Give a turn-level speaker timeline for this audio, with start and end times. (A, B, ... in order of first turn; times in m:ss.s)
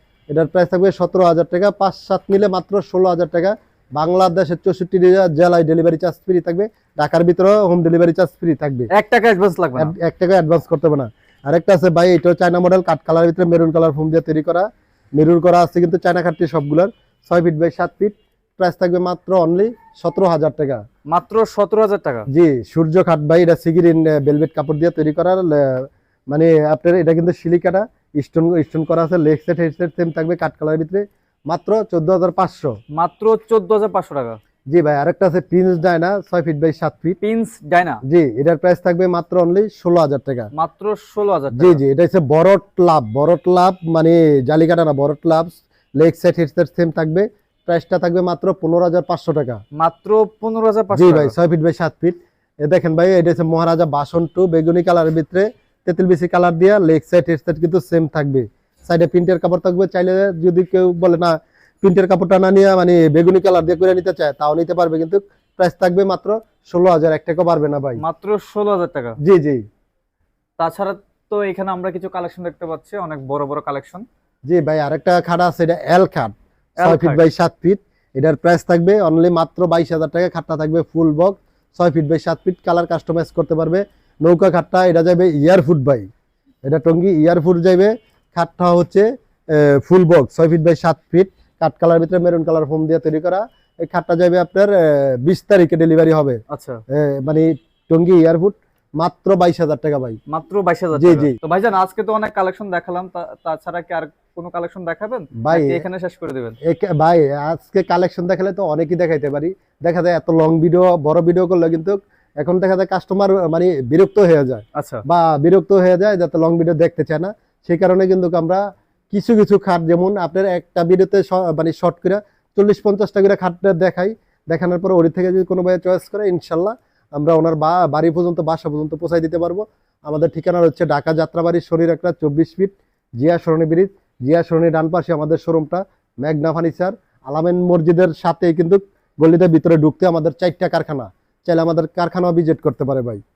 0:00.3-0:08.9 A
0:08.9-0:09.9 B
0:09.8-0:20.8 A
0:21.1-0:22.3 B
0:22.3-0:32.7 A
0:32.9-0:34.4 B
0:34.7-0:37.2 A
0:37.2-0:38.0 B
0:38.1-0:40.5 A
0:40.6-0:41.8 B
0:41.6-0:49.6 A
0:49.8-0:51.3 B
0:50.9-1:08.0 A
1:08.0-1:09.2 B
1:09.2-1:09.6 A
1:10.6-1:14.0 B
1:14.5-1:26.1 A
1:16.8-1:17.2 B
1:26.6-1:36.4 A
1:36.5-1:36.8 B
1:36.9-1:40.2 A
1:40.3-1:46.6 B
1:41.0-1:41.4 A
1:45.4-1:45.8 A
1:46.6-2:23.2 A
1:54.8-1:55.0 B